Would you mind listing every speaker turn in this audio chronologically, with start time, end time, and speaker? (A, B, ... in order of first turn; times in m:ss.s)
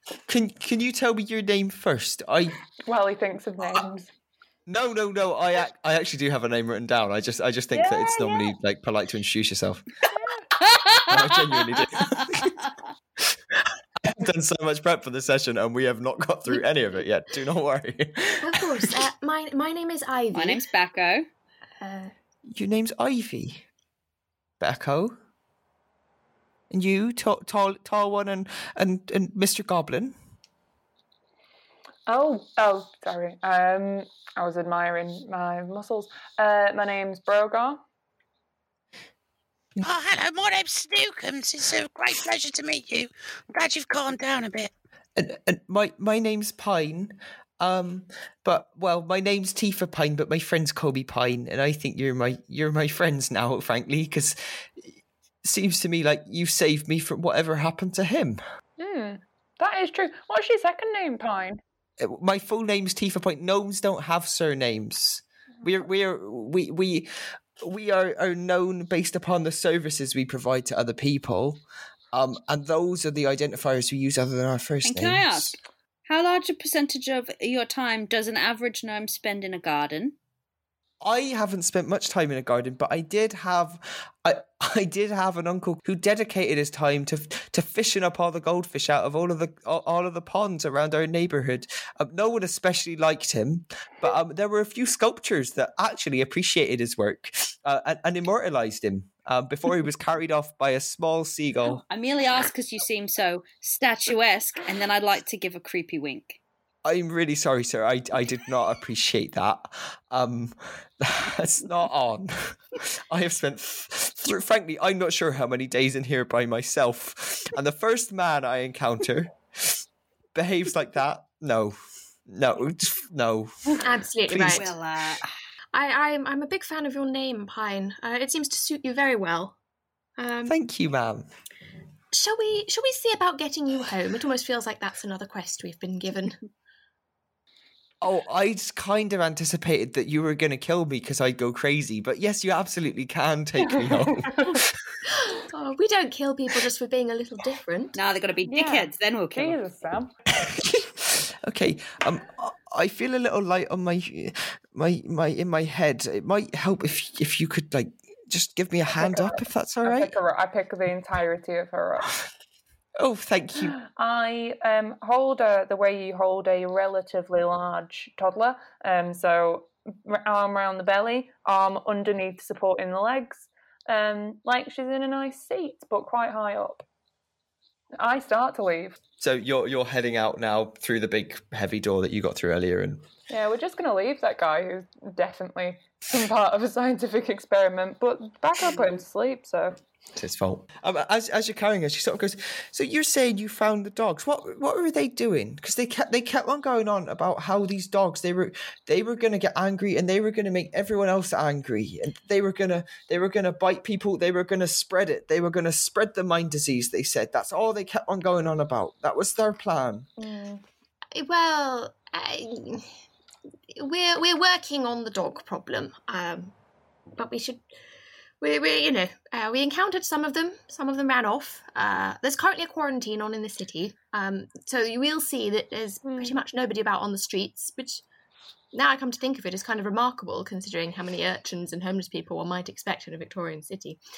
0:00.3-0:02.6 A
0:02.8-0:04.1 B
0:04.7-0:09.8 A
0:07.7-0:08.5 B
0:10.2-0:10.5 B
0:10.6-0:12.7 C
0:11.0-0:12.6 A
0:13.3-0:18.9 A
0:18.4-0:20.7 D
0:20.3-0:21.2 C
0:21.8-0:22.1 D
0:22.5-0:23.6 A
0:24.6-0:25.2 A
0:26.7-0:30.2 A
0:32.1-0:37.8 B
0:39.8-0:44.7 E
0:45.2-0:54.5 A
0:55.4-0:58.4 A
0:58.8-1:01.6 B
1:02.0-1:15.6 A
1:14.8-1:20.2 C
1:21.0-1:41.8 A
1:41.9-1:46.4 C
1:46.8-1:59.8 A
2:00.3-2:01.8 A
2:02.3-2:03.7 A
2:03.8-2:04.7 D
2:04.3-2:04.6 A
2:04.4-2:05.2 C
2:05.7-2:09.6 D
2:10.2-2:10.5 D
2:10.4-2:11.3 A
2:12.1-2:16.4 D
2:18.0-2:24.8 A
2:25.1-2:28.0 D
2:27.9-2:29.6 C
2:28.4-2:30.1 B
2:30.4-2:40.2 A
2:39.0-2:42.1 B
2:43.0-2:43.7 A
2:43.8-2:56.8 B
2:58.0-2:59.0 B
2:59.2-3:03.0 A
3:03.3-3:09.8 B
3:10.2-3:30.1 A
3:30.2-3:30.6 B
3:31.1-3:32.9 D
3:33.7-3:36.5 D
3:37.1-3:37.6 D
3:38.4-3:48.0 D
3:46.0-3:46.4 B
3:48.7-3:54.0 D